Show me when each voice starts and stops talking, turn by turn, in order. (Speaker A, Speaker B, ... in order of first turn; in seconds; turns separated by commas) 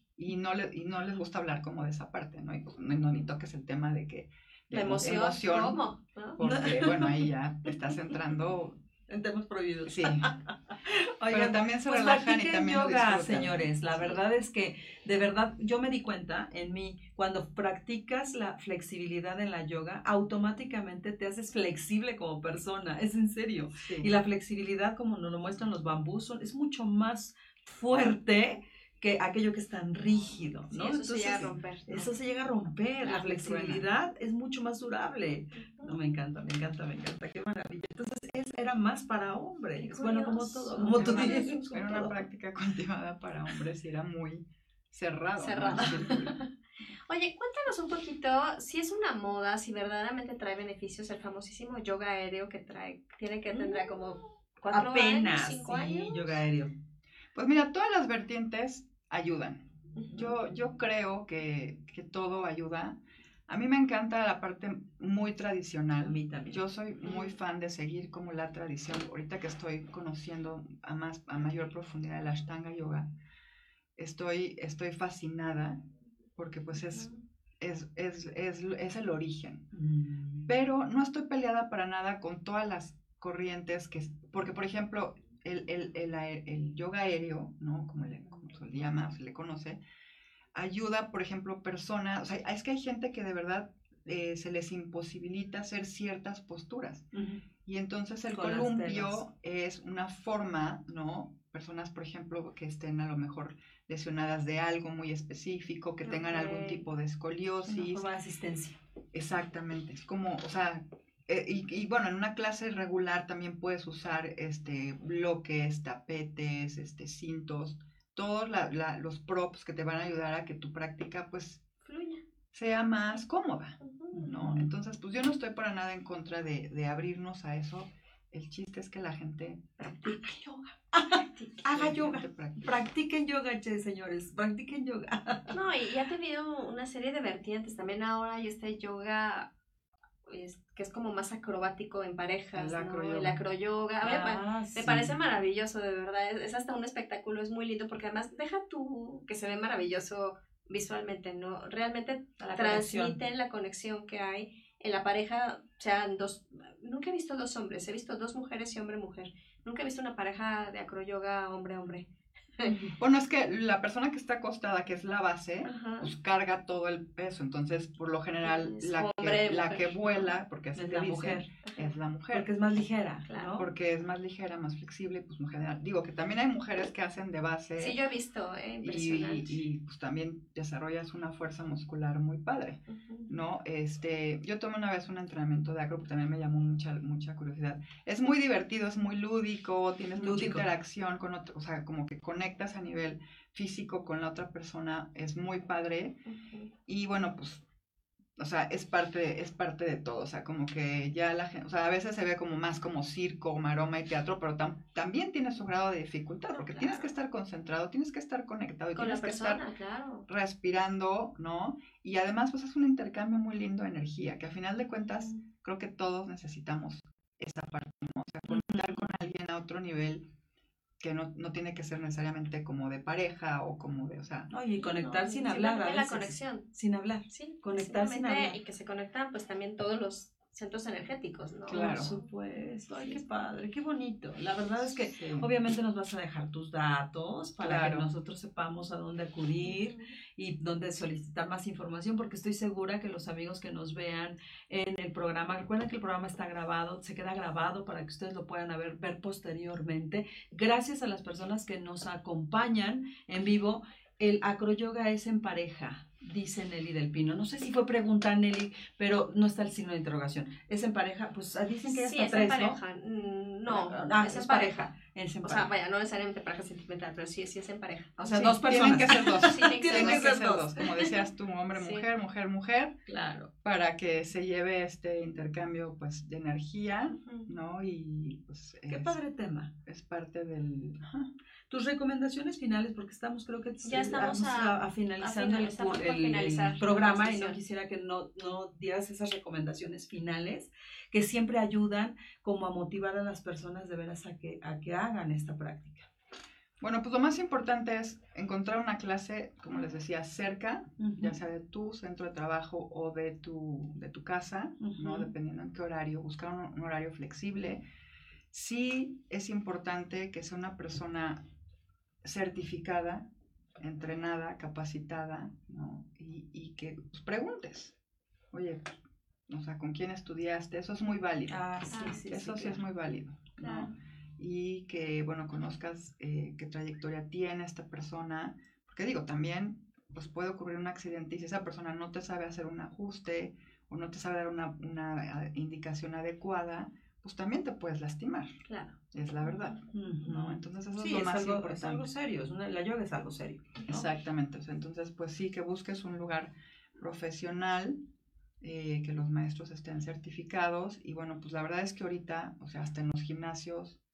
Speaker A: 0.2-5.8, Speaker B: 4.7-6.4, Speaker A: 6.4-8.8, Speaker C: 6.4-7.3, Speaker C: 9.1-42.2, Speaker A: 9.9-10.3, Speaker A: 11.3-13.7, Speaker A: 23.7-24.1, Speaker A: 30.7-32.1, Speaker A: 33.0-33.9, Speaker B: 35.6-35.9, Speaker B: 39.8-41.7, Speaker A: 40.8-46.3, Speaker B: 45.4-46.5, Speaker C: 45.7-46.0, Speaker B: 47.1-56.4, Speaker C: 53.5-54.0, Speaker C: 54.7-56.7, Speaker A: 57.3-73.1, Speaker B: 60.0-60.3, Speaker C: 66.0-66.6, Speaker B: 67.0-67.3, Speaker A: 74.0-75.8, Speaker A: 76.3-79.6, Speaker B: 76.9-77.2, Speaker C: 79.7-80.5, Speaker A: 80.5-89.8, Speaker A: 90.5-97.1, Speaker C: 97.1-97.4, Speaker A: 97.6-108.0, Speaker C: 98.3-99.2, Speaker B: 106.0-106.8, Speaker C: 107.7-108.8, Speaker A: 109.1-121.6, Speaker B: 121.8-122.2, Speaker A: 122.5-130.1, Speaker B: 123.8-124.2, Speaker C: 124.1-124.7, Speaker B: 129.8-130.2, Speaker C: 129.9-135.6, Speaker A: 131.6-132.8, Speaker B: 135.5-139.5, Speaker B: 140.3-162.7, Speaker A: 142.5-143.4, Speaker C: 144.0-145.1, Speaker C: 152.4-153.2, Speaker C: 162.6-162.9, Speaker A: 163.0-172.5, Speaker B: 165.6-166.1, Speaker B: 168.4-170.3, Speaker C: 170.7-171.5, Speaker B: 171.7-171.9, Speaker C: 172.3-173.7, Speaker B: 173.3-173.6, Speaker A: 173.6-178.0, Speaker B: 177.8-179.6, Speaker A: 178.8-196.2, Speaker B: 182.9-183.3, Speaker C: 190.2-190.7, Speaker B: 196.2-196.7, Speaker A: 196.8-197.6, Speaker A: 198.4-209.6, Speaker B: 206.5-207.1, Speaker B: 208.9-210.3, Speaker A: 210.3-220.2, Speaker C: 218.5-219.0, Speaker A: 221.0-224.5, Speaker C: 224.5-228.6, Speaker B: 224.8-226.7, Speaker B: 227.3-232.3, Speaker C: 231.7-262.8, Speaker A: 231.7-232.1, Speaker B: 232.9-233.2, Speaker A: 234.8-235.5, Speaker A: 237.6-238.1, Speaker B: 239.6-240.2, Speaker B: 261.9-264.9, Speaker C: 263.7-265.7, Speaker B: 265.4-268.7, Speaker C: 268.2-270.9, Speaker A: 268.2-273.0, Speaker B: 269.4-270.4, Speaker B: 271.7-272.1, Speaker C: 273.1-273.5, Speaker A: 273.6-279.2, Speaker B: 277.1-277.5, Speaker C: 278.9-279.7, Speaker A: 279.8-281.3, Speaker C: 281.7-296.1, Speaker B: 283.8-287.6, Speaker A: 296.8-307.8, Speaker C: 301.0-301.4, Speaker C: 304.8-305.3, Speaker A: 308.5-311.4, Speaker A: 312.2-313.3, Speaker A: 313.8-317.9, Speaker A: 318.5-319.0, Speaker A: 319.5-338.6, Speaker C: 321.5-322.8, Speaker B: 321.9-322.2, Speaker B: 323.6-323.9, Speaker B: 338.7-338.9, Speaker A: 339.1-342.1, Speaker C: 339.9-344.1, Speaker A: 343.9-348.0, Speaker A: 348.6-354.0